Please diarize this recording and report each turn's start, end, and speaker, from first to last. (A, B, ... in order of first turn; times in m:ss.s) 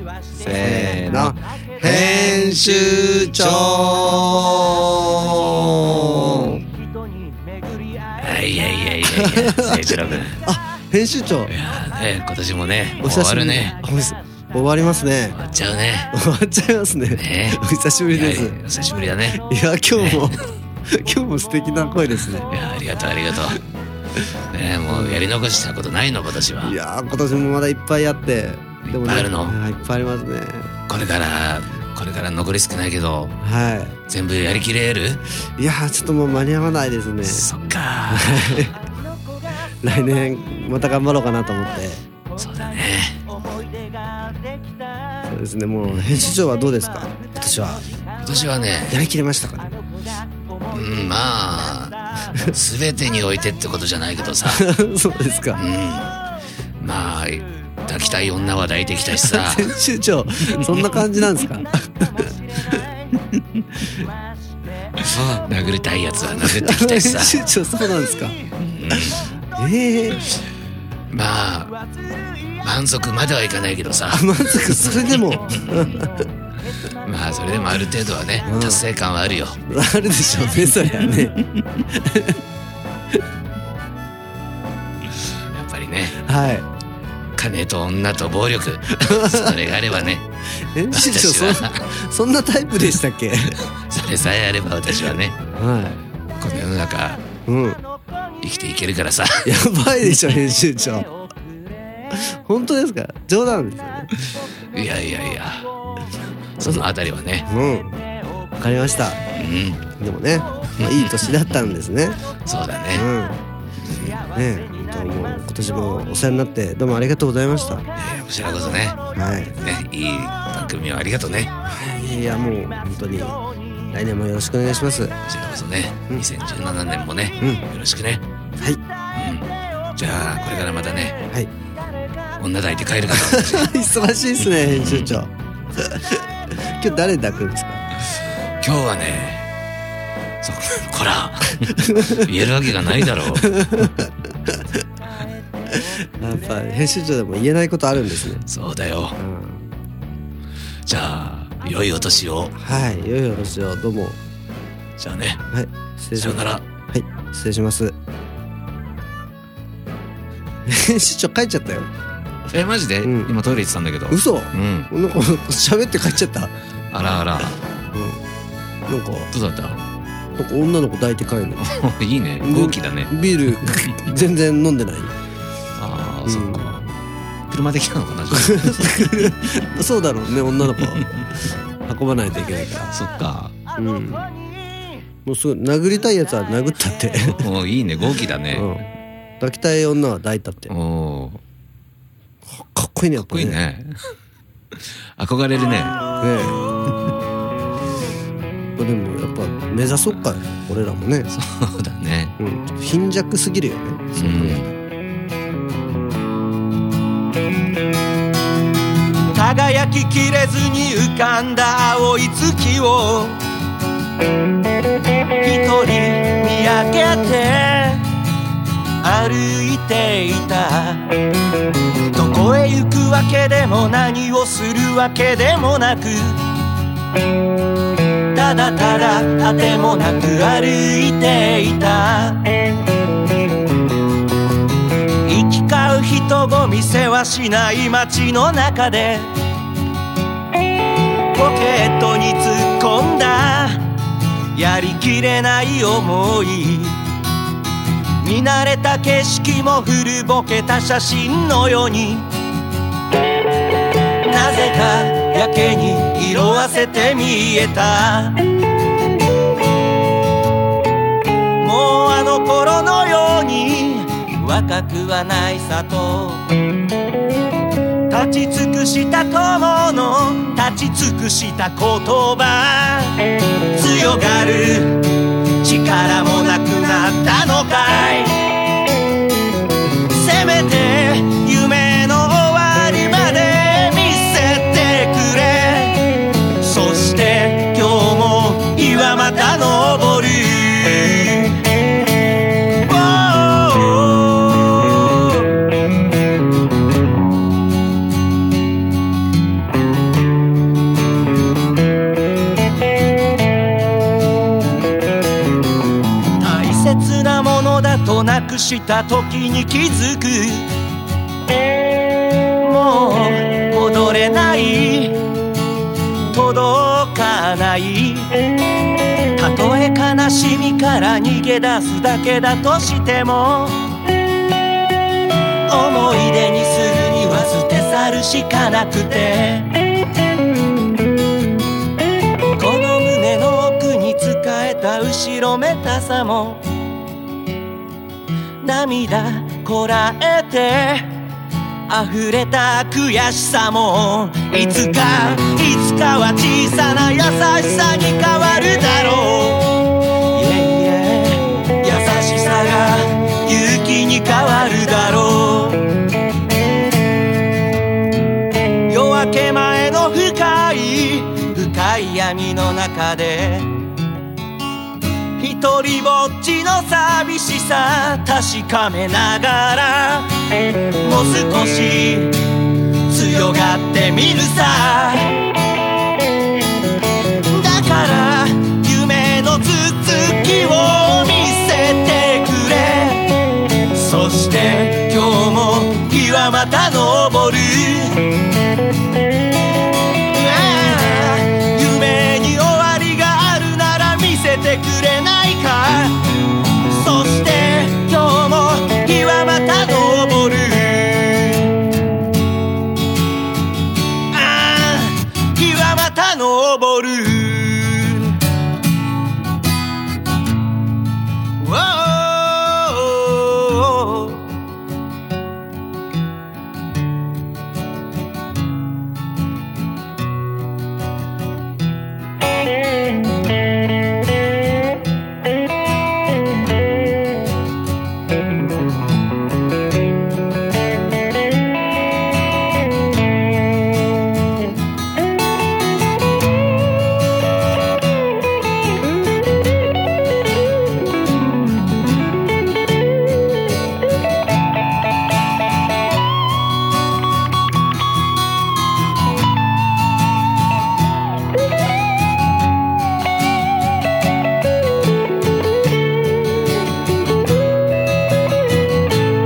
0:00.4-0:06.6 A
0:00.4-0:04.9 B
0:05.9-0:06.6 B
0:08.2-0:10.4 A
0:09.1-0:11.5 B
0:11.5-0:13.8 A
0:13.0-0:15.4 B
0:15.3-0:16.1 A
0:16.1-0:18.6 B
0:17.1-0:19.4 A
0:19.4-0:22.5 B
0:20.0-0:20.4 A
0:22.5-0:23.6 A
0:24.5-0:26.8 A
0:24.9-0:25.2 B
0:26.6-0:30.7 B
0:28.9-0:29.6 A
0:30.9-0:33.4 A
0:33.4-0:34.0 B
0:34.1-0:35.2 A
0:35.6-0:37.5 B
0:37.2-0:38.7 A
0:38.1-0:38.8 B
0:39.8-0:42.0 B
0:42.4-0:43.2 A
0:45.3-0:47.9 B
0:45.8-0:46.4 A
0:48.2-0:49.0 A
0:48.9-0:49.8 B
0:50.7-0:54.7 A
0:54.5-0:55.6 B
0:55.6-0:56.2 A
0:56.8-0:59.8 A
0:59.2-1:02.8 B
1:00.4-1:01.3 A
1:03.3-1:03.6 A
1:05.1-1:05.5 B
1:05.1-1:07.4 A
1:06.4-1:08.4 B
1:08.6-1:09.2 A
1:08.9-1:10.3 B
1:11.1-1:11.8 A
1:12.6-1:15.2 A
1:14.1-1:16.1 B
1:17.0-1:19.6 A
1:18.5-1:18.8 B
1:19.7-1:22.4 B
1:25.5-1:26.2 A
1:26.2-1:26.7 B
1:27.4-1:30.2 A
1:29.0-1:29.6 B
1:30.6-1:33.6 B
1:30.9-1:31.9 A
1:33.7-1:35.4 A
1:35.6-1:36.0 B
1:36.4-1:37.2 A
1:37.5-1:37.8 B
1:38.4-1:39.6 A
1:39.4-1:41.1 B
1:42.1-1:44.1 B
1:44.7-1:45.7 A
1:46.6-1:47.5 A
1:47.5-1:48.0 B
1:48.6-1:49.2 B
1:49.3-1:49.8 A
1:50.0-1:52.2 B
1:50.8-1:51.5 A
1:52.4-1:53.1 A
1:52.9-1:53.4 B
1:53.9-1:54.2 A
1:54.3-1:57.9 B
1:58.0-1:59.0 A
1:59.2-1:59.6 B
1:59.6-2:01.5 A
2:01.7-2:03.4 B
2:03.9-2:05.2 B
2:05.2-2:08.2 A
2:09.1-2:11.2 A
2:12.4-2:13.7 A
2:13.1-2:17.9 B
2:14.4-2:15.2 A
2:18.6-2:19.5 A
2:20.4-2:23.6 A
2:21.8-2:22.3 B
2:23.3-2:24.8 B
2:25.7-2:28.4 B
2:28.5-2:29.2 A
2:29.2-2:29.7 B
2:30.9-2:32.6 A
2:32.6-2:34.2 B
2:35.0-2:35.4 A
2:35.5-2:38.0 B
2:36.2-2:36.6 A
2:40.7-2:41.9 B
2:42.5-2:44.9 A
2:43.0-2:43.3 B
2:44.1-2:46.5 B
2:46.9-2:47.6 A
2:47.9-2:48.2 B
2:48.9-2:49.3 B
2:49.3-2:49.8 A
2:50.4-2:51.7 B
2:51.6-2:54.0 A
2:52.4-2:55.2 B
2:55.8-2:56.9 A
2:56.3-2:56.8 B
2:57.5-2:59.4 A
2:58.3-3:01.3 B
3:01.9-3:02.9 B
3:02.9-3:03.5 A
3:03.8-3:04.3 B
3:05.2-3:07.5 B
3:07.3-3:08.7 A
3:08.5-3:08.9 B
3:09.4-3:10.7 B
3:10.7-3:11.4 A
3:12.5-3:13.6 B
3:13.2-3:14.0 A
3:15.2-3:16.0 A
3:16.2-3:16.6 B
3:18.8-3:21.3 B
3:21.3-3:22.4 A
3:22.4-3:24.6 B
3:24.2-3:24.7 A
3:29.3-3:33.4 C
3:35.4-3:38.0 C
3:39.0-3:41.1 C
3:42.1-3:46.4 C
3:48.3-3:52.5 C
3:55.2-3:59.3 C
4:01.3-4:03.9 C
4:04.5-4:07.0 C
4:08.2-4:12.3 C
4:14.2-4:18.4 C
4:21.6-4:26.5 C
4:28.1-4:38.6 C
4:40.1-4:51.6 C
4:52.7-4:55.4 C
5:06.4-5:10.7 C
5:12.6-5:15.2 C
5:16.3-5:18.4 C
5:19.4-5:23.8 C
5:25.7-5:29.8 C
5:32.6-5:36.6 C
5:38.6-5:41.2 C
5:41.9-5:55.9 C
5:58.9-6:03.7 C
6:05.4-6:10.3 C
6:11.0-6:15.5 C
6:17.5-6:28.3 C
6:30.3-6:36.2 C
6:36.9-6:41.8 C
6:44.3-6:48.4 C
6:51.6-6:54.5 C